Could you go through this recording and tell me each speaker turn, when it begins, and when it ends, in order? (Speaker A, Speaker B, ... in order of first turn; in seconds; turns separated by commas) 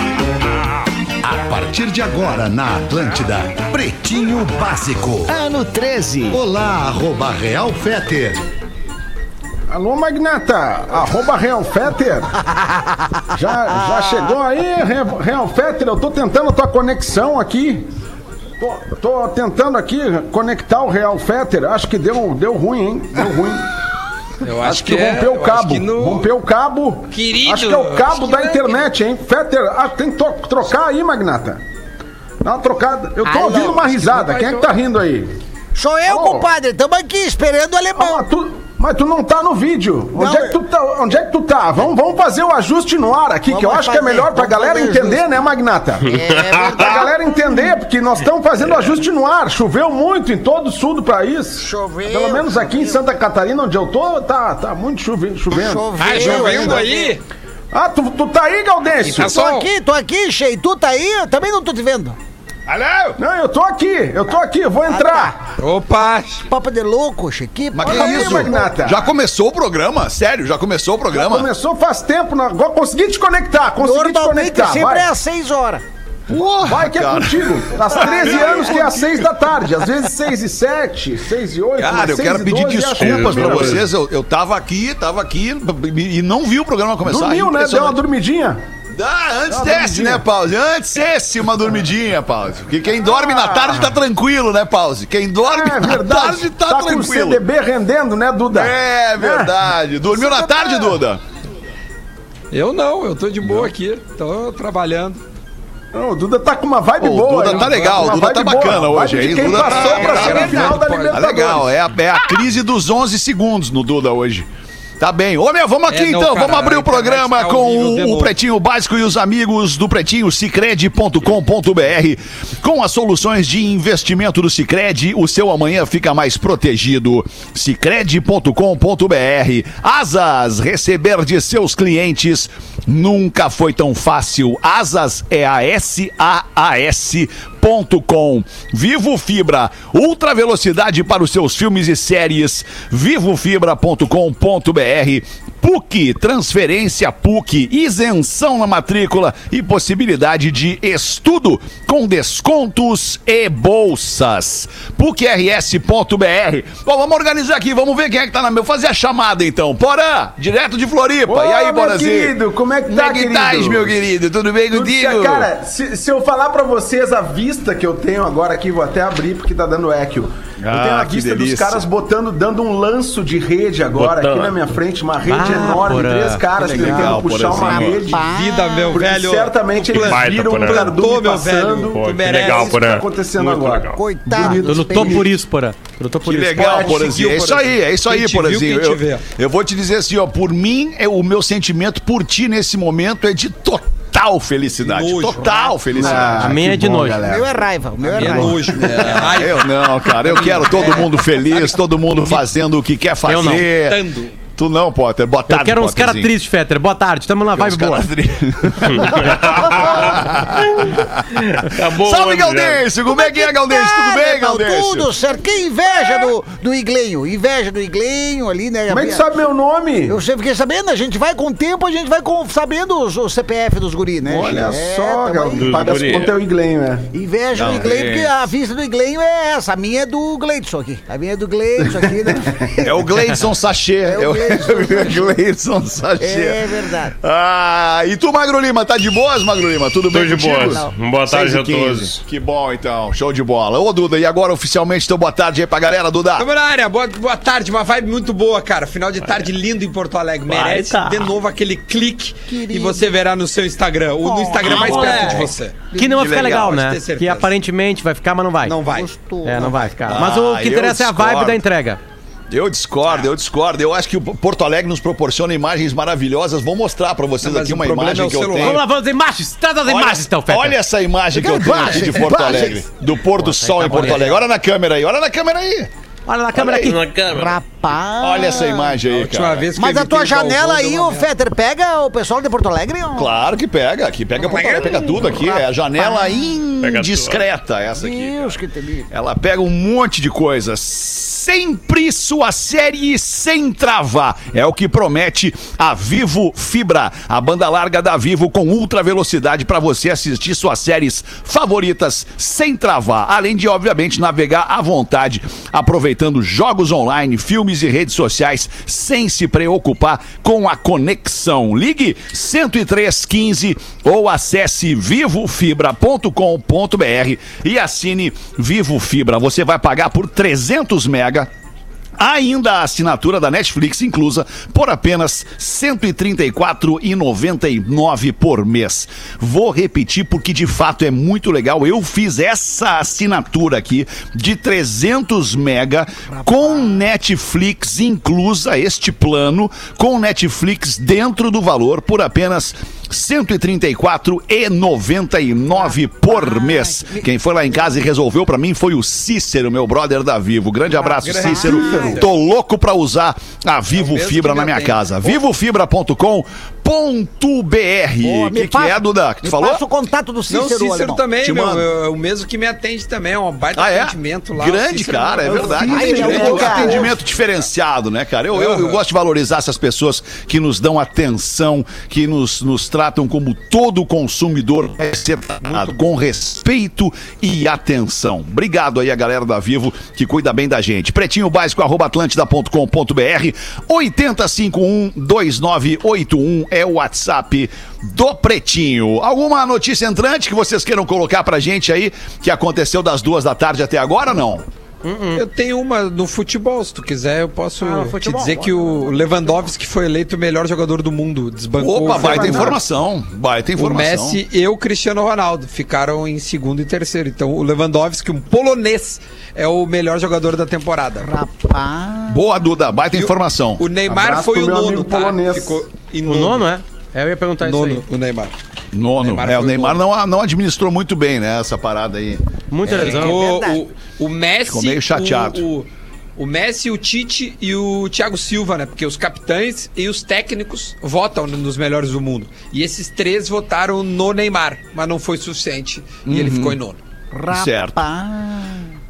Speaker A: 1.2-8.4, Speaker B: 9.7-12.3, Speaker C: 12.4-14.3, Speaker B: 13.3-17.9, Speaker B: 18.6-23.7, Speaker D: 24.4-26.3, Speaker B: 24.5-31.6, Speaker D: 27.1-28.8, Speaker B: 32.4-35.3, Speaker C: 33.2-34.7, Speaker C: 35.7-38.2, Speaker B: 36.0-36.5, Speaker B: 38.0-46.2, Speaker C: 40.1-40.6, Speaker C: 43.5-45.2, Speaker C: 46.1-47.5, Speaker E: 46.2-46.9, Speaker B: 46.8-56.8, Speaker C: 51.6-53.0, Speaker C: 55.5-57.1, Speaker D: 56.0-57.2, Speaker B: 57.7-59.4, Speaker D: 59.0-59.7, Speaker C: 59.1-62.2, Speaker F: 62.7-63.2, Speaker B: 63.2-65.3, Speaker C: 64.9-65.3, Speaker D: 65.6-66.4, Speaker C: 66.5-68.7, Speaker F: 67.7-71.5, Speaker B: 67.8-69.1, Speaker B: 71.1-75.1, Speaker C: 73.8-75.8, Speaker F: 76.3-77.5, Speaker B: 76.6-83.8, Speaker C: 77.8-79.1, Speaker F: 81.8-88.0, Speaker E: 82.9-83.8, Speaker B: 87.0-88.6, Speaker F: 88.9-97.4, Speaker B: 89.5-90.2, Speaker B: 93.1-93.9, Speaker B: 95.5-99.5, Speaker F: 98.5-101.2, Speaker C: 100.1-101.0, Speaker D: 102.5-105.2, Speaker F: 103.4-103.7, Speaker B: 105.9-111.7, Speaker F: 107.0-114.5, Speaker D: 107.4-108.2, Speaker D: 109.3-111.2, Speaker C: 109.7-110.8, Speaker F: 115.0-162.3, Speaker D: 115.9-118.3, Speaker B: 161.3-164.0, Speaker F: 162.9-165.5, Speaker B: 164.7-178.3, Speaker F: 170.6-171.8, Speaker E: 173.9-174.6, Speaker G: 175.3-177.1, Speaker C: 175.4-175.9, Speaker F: 176.6-178.2, Speaker C: 177.5-179.0, Speaker D: 178.1-183.0, Speaker B: 178.9-185.3, Speaker E: 179.8-181.0, Speaker E: 181.9-184.0, Speaker C: 183.9-185.3, Speaker G: 184.4-186.7, Speaker F: 186.2-196.6, Speaker B: 186.6-187.2, Speaker D: 186.6-189.2, Speaker D: 194.8-196.2, Speaker C: 195.4-196.1, Speaker B: 195.9-197.5, Speaker G: 196.4-197.2, Speaker C: 197.2-199.3, Speaker D: 198.0-201.6, Speaker B: 198.2-199.1, Speaker F: 199.0-206.3, Speaker G: 203.2-203.6, Speaker D: 203.4-204.3, Speaker G: 205.5-208.1, Speaker F: 207.5-215.1, Speaker E: 208.9-212.9, Speaker C: 213.1-219.2, Speaker B: 218.9-220.2, Speaker C: 220.1-225.9, Speaker B: 224.2-227.1, Speaker E: 225.6-226.3, Speaker C: 227.1-233.3, Speaker F: 227.5-228.3, Speaker F: 232.8-246.5, Speaker C: 234.1-235.3, Speaker C: 236.2-237.1, Speaker E: 240.1-242.1, Speaker C: 240.5-240.9, Speaker D: 246.4-257.5, Speaker F: 250.6-250.8, Speaker G: 250.6-251.2, Speaker C: 252.5-253.1, Speaker C: 254.2-256.2, Speaker G: 254.6-258.8, Speaker F: 254.7-255.3, Speaker F: 256.1-256.7, Speaker D: 258.6-259.1, Speaker C: 258.8-259.9, Speaker G: 259.4-262.0, Speaker F: 260.1-261.6, Speaker F: 262.5-268.8, Speaker D: 267.4-268.8, Speaker G: 268.6-270.8, Speaker F: 269.9-275.9, Speaker C: 271.3-272.8, Speaker G: 273.3-274.4, Speaker G: 276.3-277.0, Speaker F: 276.5-277.0, Speaker E: 276.8-277.6, Speaker C: 277.3-279.0, Speaker F: 278.2-279.7, Speaker D: 279.1-281.3, Speaker C: 279.8-283.4, Speaker F: 283.1-288.6, Speaker D: 284.4-285.2, Speaker C: 284.5-286.6, Speaker E: 286.8-287.4, Speaker C: 287.9-289.1, Speaker F: 289.1-321.5, Speaker F: 322.2-359.8, Speaker C: 336.3-337.1, Speaker C: 345.7-347.3, Speaker C: 350.9-352.2, Speaker D: 351.2-352.3, Speaker B: 351.7-352.2, Speaker D: 353.9-355.4, Speaker C: 358.2-361.2, Speaker D: 360.5-367.1, Speaker F: 361.4-361.9, Speaker F: 363.7-394.7, Speaker B: 365.4-367.1, Speaker C: 365.7-367.1, Speaker D: 368.5-369.0, Speaker D: 375.6-376.1, Speaker G: 395.0-395.4, Speaker D: 395.3-402.8, Speaker G: 397.8-399.2, Speaker F: 401.8-404.4, Speaker B: 402.1-402.8, Speaker D: 403.8-411.3, Speaker C: 411.2-412.4, Speaker F: 412.3-413.8, Speaker D: 413.1-416.7, Speaker B: 414.1-415.8, Speaker G: 416.2-418.0, Speaker D: 417.6-418.6, Speaker F: 418.9-422.4, Speaker D: 419.2-420.0, Speaker G: 422.7-423.4, Speaker D: 422.9-437.0, Speaker C: 422.9-423.8, Speaker F: 424.7-425.6, Speaker F: 436.2-436.8, Speaker C: 437.3-439.0, Speaker F: 437.5-438.0